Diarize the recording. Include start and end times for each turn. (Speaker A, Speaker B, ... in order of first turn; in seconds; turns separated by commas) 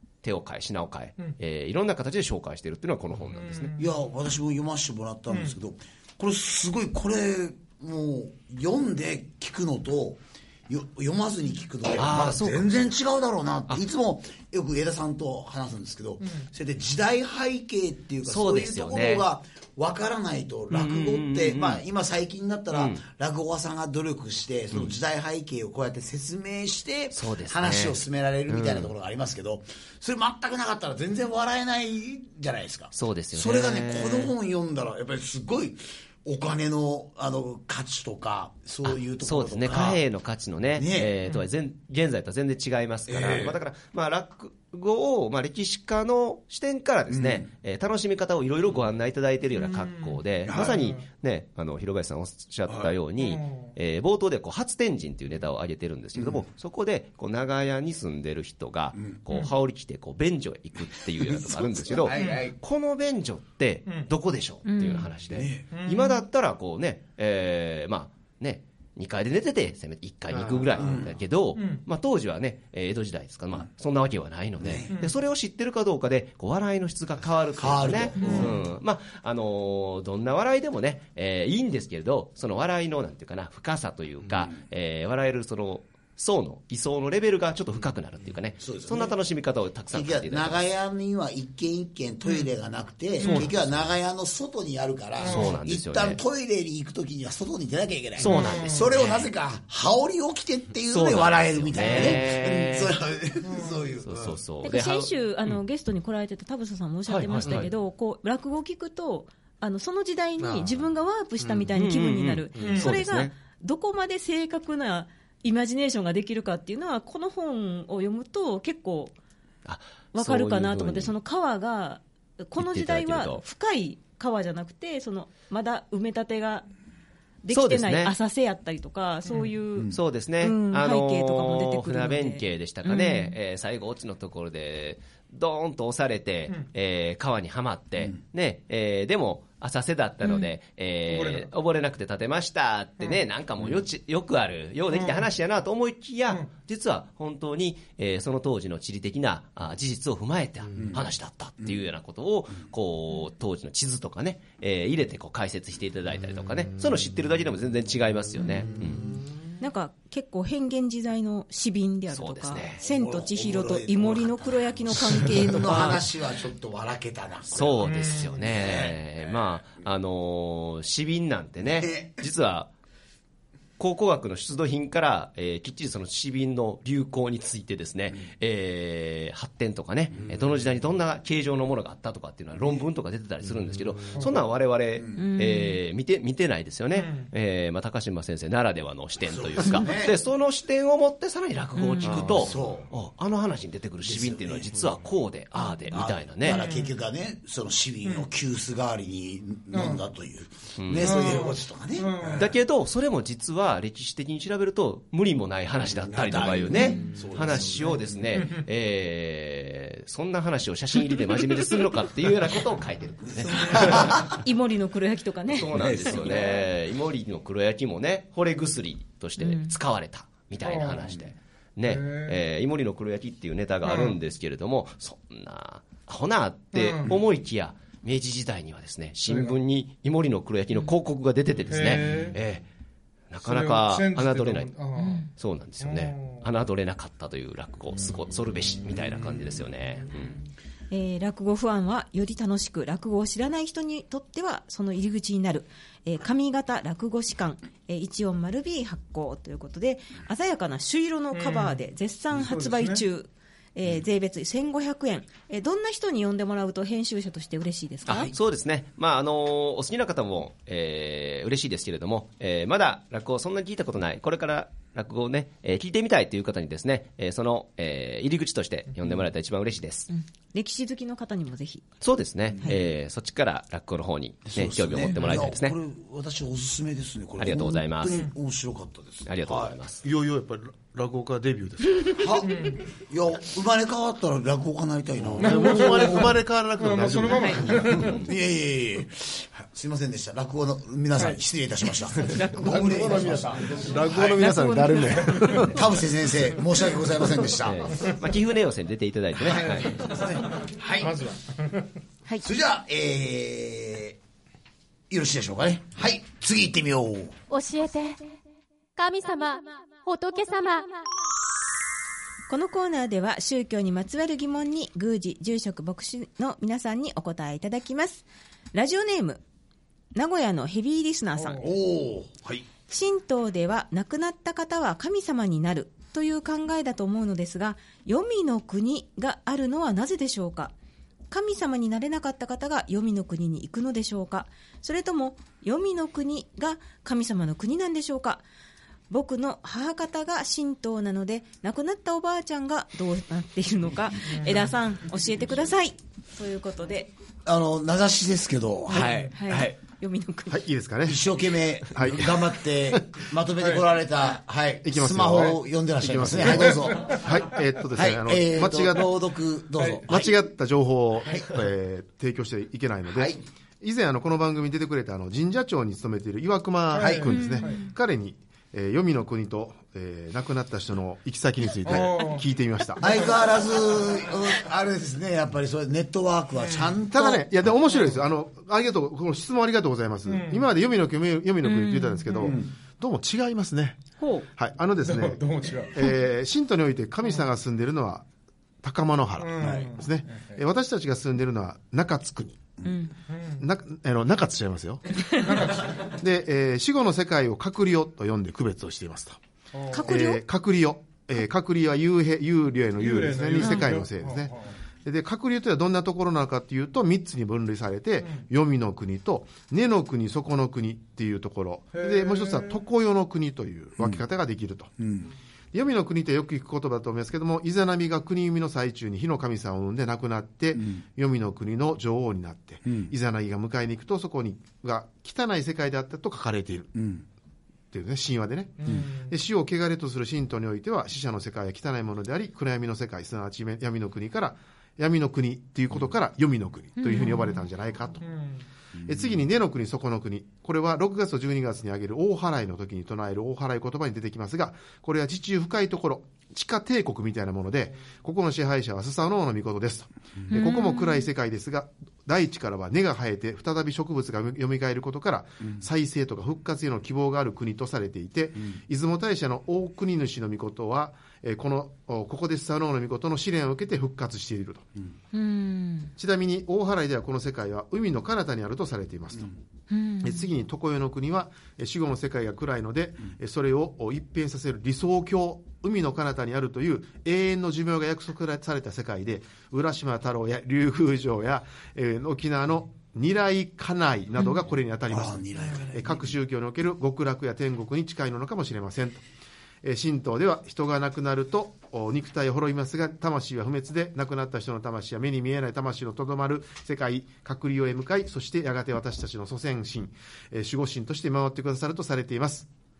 Speaker A: 0.2-3.7, Speaker B: 3.4-3.9, Speaker C: 3.8-40.0, Speaker B: 5.3-5.6, Speaker A: 12.0-12.9, Speaker A: 18.2-19.2, Speaker A: 20.7-21.8, Speaker A: 22.7-23.0, Speaker A: 27.1-28.9, Speaker A: 32.9-34.3, Speaker A: 38.9-90.6, Speaker C: 40.8-41.1, Speaker C: 43.1-43.6, Speaker C: 47.1-47.5, Speaker B: 49.6-51.0, Speaker C: 50.5-50.8, Speaker B: 53.2-53.7, Speaker C: 56.2-56.4, Speaker C: 59.0-59.2, Speaker C: 61.2-62.6, Speaker B: 62.1-62.4, Speaker D: 64.7-65.1, Speaker C: 65.3-65.7, Speaker B: 65.7-66.2, Speaker E: 70.3-70.8, Speaker C: 70.8-71.1, Speaker B: 71.5-71.8, Speaker C: 74.6-75.0, Speaker C: 77.6-78.6, Speaker B: 78.2-78.5, Speaker C: 88.6-89.1, Speaker C: 89.9-104.4, Speaker B: 93.2-93.5, Speaker A: 93.2-93.5, Speaker B: 95.2-95.5, Speaker A: 95.2-96.2, Speaker A: 98.2-99.3, Speaker B: 98.2-98.9, Speaker A: 100.9-103.0, Speaker B: 103.5-103.8, Speaker A: 104.0-105.6, Speaker D: 104.6-119.2, Speaker A: 107.1-107.7, Speaker E: 110.4-110.8, Speaker E: 111.4-111.7, Speaker A: 111.7-113.3, Speaker E: 112.6-112.9, Speaker B: 112.6-113.0, Speaker A: 119.7-121.1, Speaker D: 120.1-126.7, Speaker A: 122.6-123.4, Speaker D: 127.4-133.4, Speaker A: 127.5-128.2, Speaker A: 129.9-159.1, Speaker D: 140.2-140.5, Speaker B: 141.1-141.5, Speaker B: 144.9-145.3, Speaker D: 159.6-166.1, Speaker A: 162.1-162.8, Speaker C: 162.8-169.3, Speaker A: 167.5-172.7, Speaker B: 167.8-168.3, Speaker C: 171.7-172.2, Speaker A: 173.8-196.6, Speaker C: 185.0-185.2, Speaker D: 185.2-185.8, Speaker B: 186.9-187.3, Speaker C: 189.3-190.2, Speaker D: 191.8-192.2, Speaker C: 192.0-192.9, Speaker C: 194.0-194.9, Speaker D: 195.6-195.9, Speaker C: 195.9-202.5, Speaker B: 196.5-196.9, Speaker B: 199.7-200.0, Speaker A: 200.8-201.4, Speaker B: 201.0-202.5, Speaker A: 202.4-214.1, Speaker C: 206.0-208.5, Speaker C: 213.3-214.4, Speaker D: 213.7-216.5, Speaker A: 215.6-232.7, Speaker C: 215.6-216.6, Speaker D: 219.4-219.7, Speaker B: 220.6-221.1, Speaker B: 221.9-222.4, Speaker B: 223.8-224.2, Speaker B: 226.7-227.1, Speaker B: 229.3-229.6, Speaker B: 231.7-232.4, Speaker A: 233.3-240.4, Speaker B: 233.4-235.2, Speaker D: 234.9-235.3, Speaker B: 235.8-236.5, Speaker D: 240.9-258.3, Speaker B: 251.3-251.8, Speaker B: 252.3-253.0, Speaker A: 258.1-270.1, Speaker D: 270.1-271.9, Speaker A: 272.0-275.8, Speaker C: 274.5-279.8, Speaker A: 277.4-278.3, Speaker A: 279.3-280.0, Speaker E: 280.0-282.2, Speaker C: 282.1-286.2, Speaker B: 282.4-282.8, Speaker E: 285.2-288.0, Speaker B: 285.4-288.2, Speaker D: 287.3-287.6, Speaker C: 287.8-294.5, Speaker E: 292.5-295.8, Speaker D: 294.4-295.7, Speaker C: 295.6-298.0, Speaker A: 297.5-300.0, Speaker C: 299.5-301.2, Speaker B: 299.5-301.9, Speaker C: 302.4-304.2, Speaker C: 305.1-307.4, Speaker F: 307.5-308.2, Speaker F: 309.0-311.0, Speaker D: 312.5-319.4, Speaker D: 320.1-321.6, Speaker B: 321.3-321.7, Speaker C: 321.6-322.7, Speaker D: 322.9-330.7, Speaker D: 331.3-338.4, Speaker D: 339.1-347.1, Speaker B: 344.4-344.7, Speaker C: 347.5-349.8, Speaker A: 348.9-349.3, Speaker B: 349.0-349.2, Speaker D: 349.3-350.6, Speaker E: 350.5-353.2, Speaker C: 351.1-357.2, Speaker E: 354.8-359.2, Speaker C: 357.9-360.3, Speaker E: 360.1-373.1, Speaker C: 361.2-361.5, Speaker C: 363.1-363.4, Speaker B: 366.9-367.8, Speaker C: 367.0-367.3, Speaker D: 367.3-367.9, Speaker B: 371.9-372.4, Speaker C: 373.0-377.5, Speaker B: 376.6-377.0, Speaker E: 377.1-388.3, Speaker B: 377.9-378.2, Speaker B: 380.3-380.7, Speaker D: 381.6-382.6, Speaker C: 382.4-382.7, Speaker D: 384.2-384.5, Speaker B: 385.0-386.0, Speaker E: 388.8-392.8, Speaker B: 389.4-390.6, Speaker C: 389.6-389.9, Speaker D: 392.8-393.1, Speaker B: 393.3-393.6, Speaker E: 393.6-399.4, Speaker B: 395.4-396.1, Speaker B: 399.7-400.1, Speaker D: 399.9-400.4, Speaker E: 400.0-414.9, Speaker B: 403.0-404.8, Speaker D: 403.6-403.9, Speaker B: 411.9-412.8, Speaker C: 415.0-415.3, Speaker E: 415.7-426.9, Speaker C: 420.8-421.0, Speaker C: 422.9-423.1, Speaker C: 426.9-427.3, Speaker E: 427.9-438.2, Speaker B: 428.8-429.3, Speaker D: 437.0-437.6, Speaker B: 438.3-438.6, Speaker C: 438.9-439.2, Speaker E: 439.1-464.9, Speaker D: 450.5-451.3, Speaker D: 465.3-466.1, Speaker E: 466.2-469.5, Speaker D: 469.9-470.4, Speaker E: 470.2-489.2, Speaker C: 485.1-486.3, Speaker E: 489.8-502.7